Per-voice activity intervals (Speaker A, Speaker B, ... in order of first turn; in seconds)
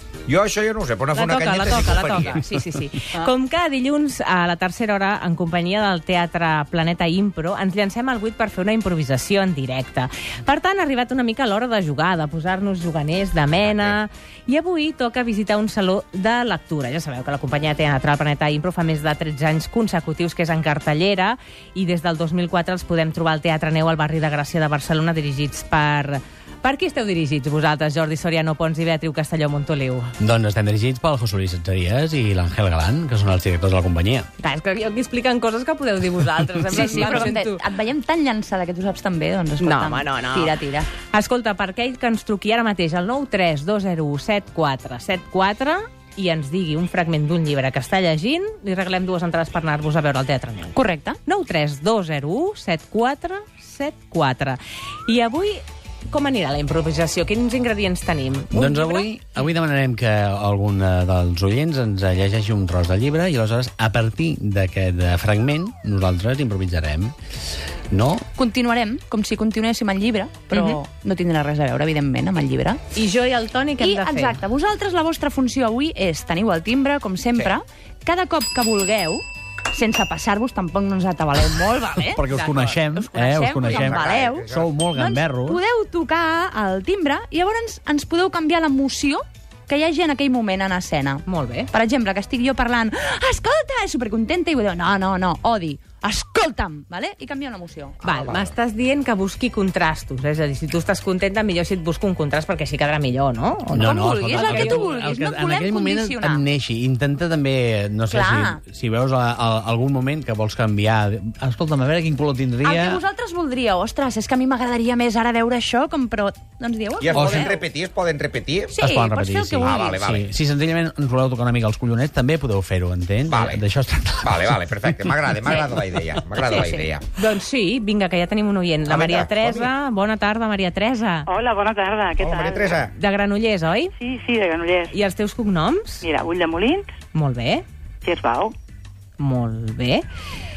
Speaker A: 0.3-2.4, 13.6-14.0, 83.7-84.7, 117.0-118.8, 119.6-120.3, 123.3-123.6, 124.2-127.0, 128.8-129.7, 132.2-132.9
Speaker B: 1.1-30.1, 34.4-37.6, 39.6-59.1, 70.5-70.8, 72.9-74.4, 82.2-83.1, 91.2-91.7, 98.0-104.9, 127.2-131.3, 132.9-133.9, 134.9-136.1, 137.1-137.6, 139.2-140.0
Speaker C: 30.2-34.3, 58.5-67.2, 67.9-68.3, 82.1-85.6, 103.7-113.0, 117.1-117.5, 118.8-125.6
Speaker D: 36.7-40.9, 50.7-51.2, 68.3-72.8, 73.8-82.2, 83.1-98.2, 103.8-106.4, 108.1-108.6, 112.6-117.6, 118.7-120.0, 126.4-126.8
Speaker E: 131.3-132.9, 133.9-134.9, 136.0-136.9, 138.0-138.5